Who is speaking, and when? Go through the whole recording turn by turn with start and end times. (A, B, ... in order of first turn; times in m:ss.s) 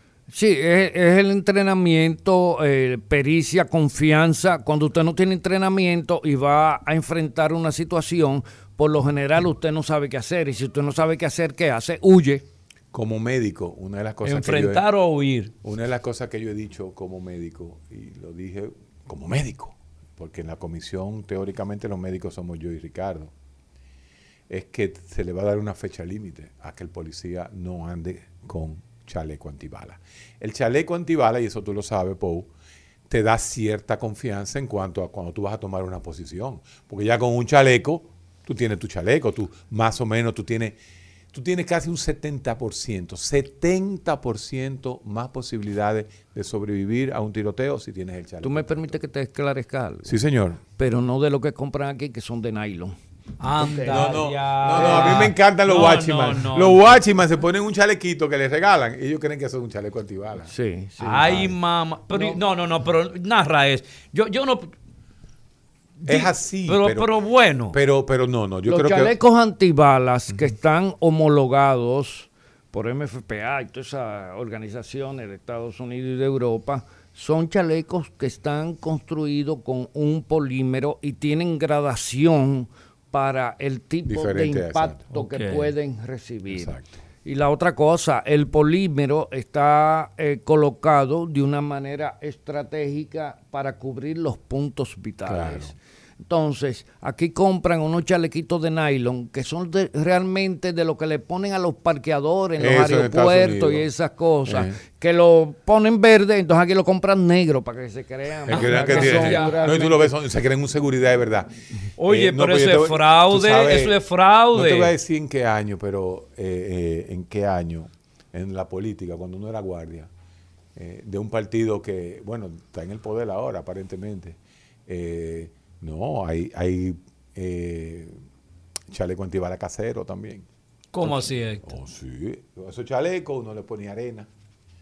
0:00.3-0:12.4 A
0:12.9-0:14.8 B
0:14.2-0:15.5 C
0:15.6-0:23.3 B
0:24.5-0:32.5 B
0:33.1-0:40.8 B
0:41.3-0:49.0 B
0:48.4-0:50.2 A
0:50.0-0:50.6 B
0:50.8-0:53.0 A
0:53.4-0:57.0 C
0:53.5-0:55.3 A
0:53.8-1:00.5 B
1:00.4-1:01.6 A
1:01.0-1:04.7 C
1:02.1-1:02.4 A
1:06.0-1:07.8 C
1:06.1-1:07.1 B
1:07.7-1:09.1 B
1:08.6-1:50.1 A
1:24.0-1:25.0 B
1:25.1-1:25.7 C
1:26.5-1:27.0 B
1:35.2-1:35.7 B
1:42.6-1:43.9 B
1:44.4-1:44.8 B
1:48.4-1:54.0 B
1:48.5-1:49.6 C
1:52.0-1:54.9 C
1:54.5-2:00.1 B
2:00.7-2:08.2 B
2:08.9-2:10.5 B
2:10.9-2:11.7 C
2:11.0-2:14.3 B